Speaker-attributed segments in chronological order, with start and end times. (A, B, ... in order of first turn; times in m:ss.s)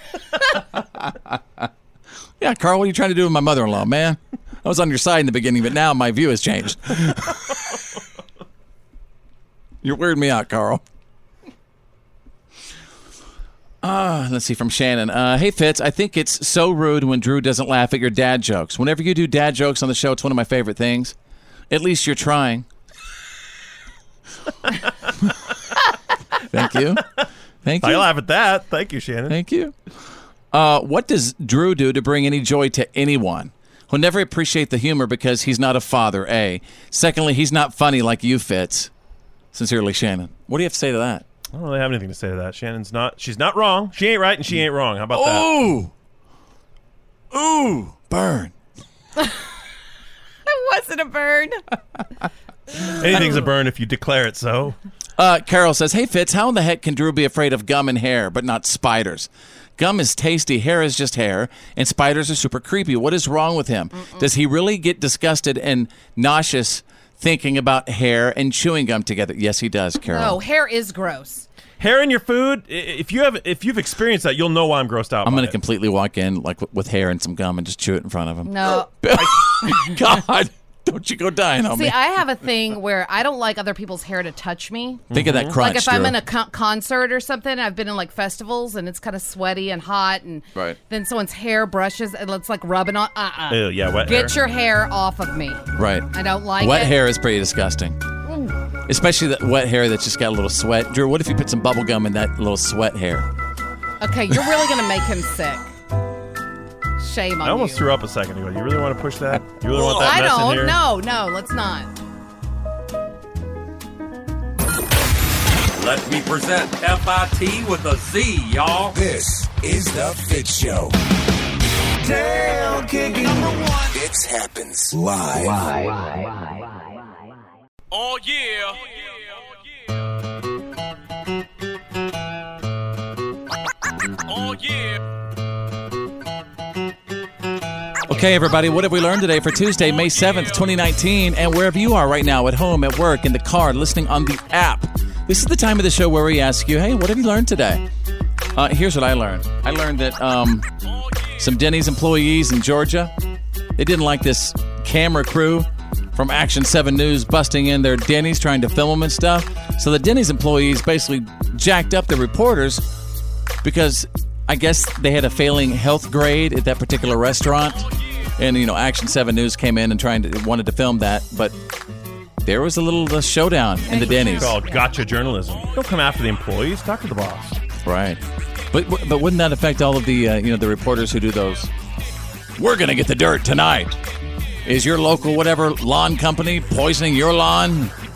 0:01.0-0:01.6 A
0:02.4-0:07.4 A
0:09.8-0:10.8 A
0:13.8-0:21.1 A
0:21.7-0:22.6 A
0:26.5-0:27.0 A
0:27.6-0:28.1 A
0:27.8-0:29.4 B
0:29.3-0:29.7 A
0:30.5-0:38.9 A
0:39.5-0:41.2 A
0:41.5-0:45.5 B
0:45.1-0:45.9 A
0:47.3-0:48.5 A
0:50.5-0:51.6 C
0:52.9-0:54.8 B
0:53.0-0:53.4 A
0:55.2-1:10.4 A
1:03.9-1:04.3 C
1:10.1-1:11.5 C
1:11.8-1:15.6 B
1:15.2-1:22.0 A
1:18.4-1:18.9 C
1:19.6-1:19.9 C
1:21.7-1:37.0 C
1:25.1-1:25.5 B
1:25.1-1:26.2 A
1:33.5-1:34.3 B
1:35.7-1:36.1 A
1:36.6-1:38.0 A
1:38.9-1:43.3 A
1:44.0-1:45.6 C
1:47.0-1:47.8 C
1:47.4-1:50.8 B
1:49.7-1:51.9 C
1:55.8-1:58.9 D
1:58.9-2:00.9 E
2:02.0-2:06.0 E
2:18.1-2:27.8 A
2:28.5-2:30.6 A
2:31.4-2:33.1 A
2:33.8-2:42.8 A
2:43.6-2:51.5 A
2:52.4-2:54.6 A
2:53.9-2:54.8 C
2:54.0-2:57.6 B
2:57.8-2:58.2 A
2:58.7-3:01.7 A
3:02.6-3:04.0 A
3:04.6-3:07.9 A